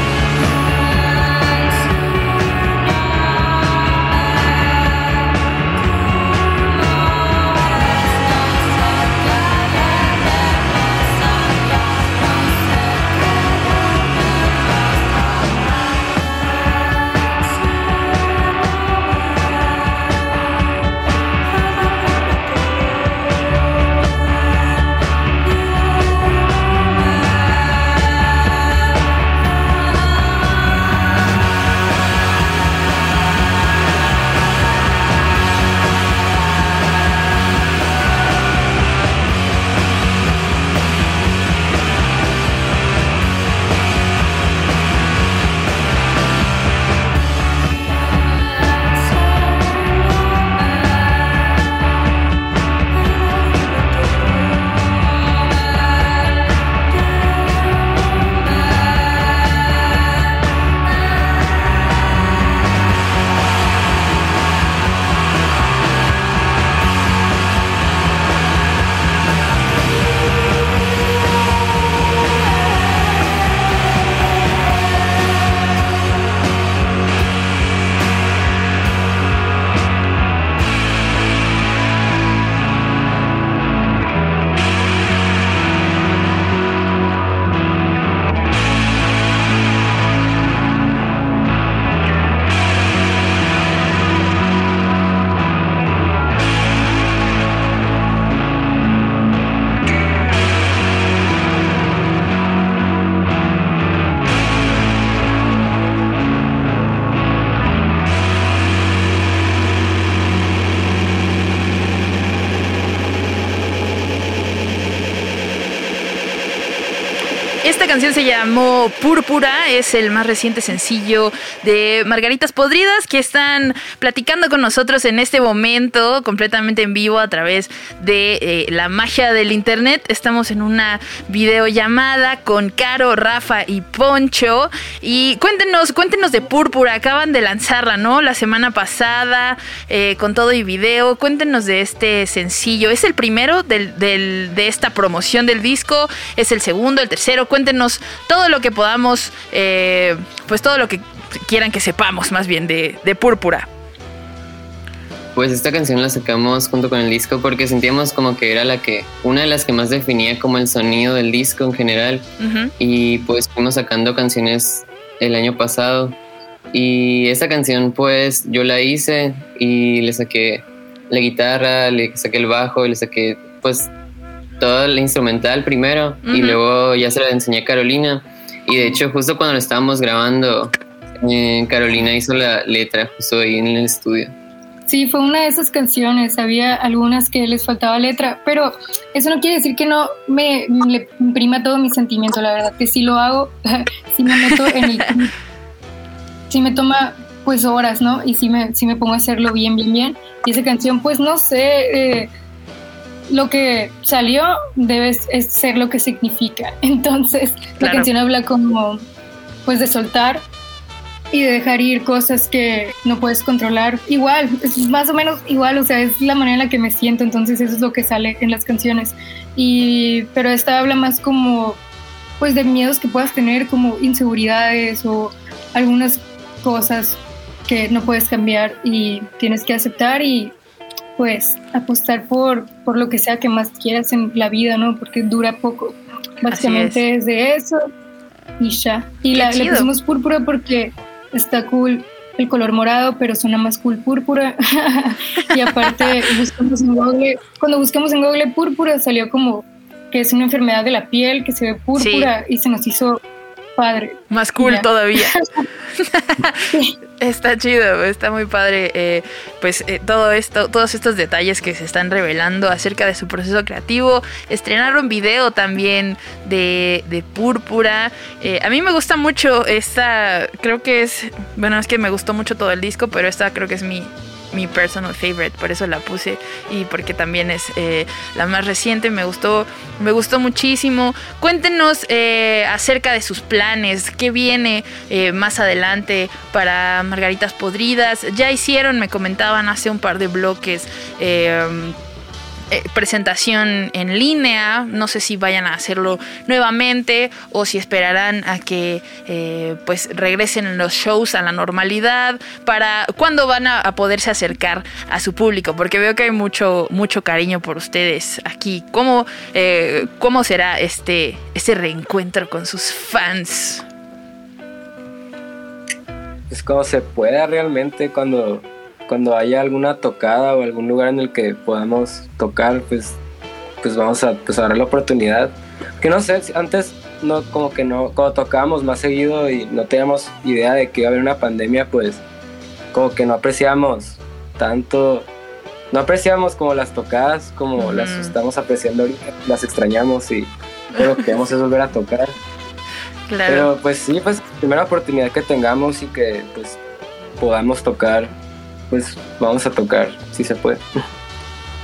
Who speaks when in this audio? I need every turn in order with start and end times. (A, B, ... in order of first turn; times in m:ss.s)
1:57.6-2:33.7 A
2:35.3-2:42.3 B
2:42.4-2:42.7 A
2:42.8-2:46.2 B
2:46.7-2:53.9 B
2:54.6-3:04.3 B
2:56.2-2:56.6 A
3:04.9-3:15.3 C
3:16.5-3:22.3 C
3:23.3-3:29.0 C
3:27.8-3:28.1 A
3:29.6-3:30.4 C
3:31.3-3:41.8 C
3:42.4-3:50.5 C
3:51.2-3:57.8 C
3:56.5-3:57.0 A
3:58.6-4:13.2 C
3:59.3-3:59.9 A
4:05.8-4:06.1 A
4:12.0-4:12.3 A
4:13.8-4:15.5 C
4:14.3-4:15.3 A
4:16.0-4:52.0 A
4:52.7-5:13.8 A
5:16.5-5:23.2 D
5:23.8-5:32.2 D
5:32.9-5:35.3 D
5:35.9-5:42.3 D
5:37.8-5:38.3 A
5:43.3-5:43.7 A
5:43.5-5:46.8 D
5:47.4-5:48.3 D
5:48.9-5:50.8 D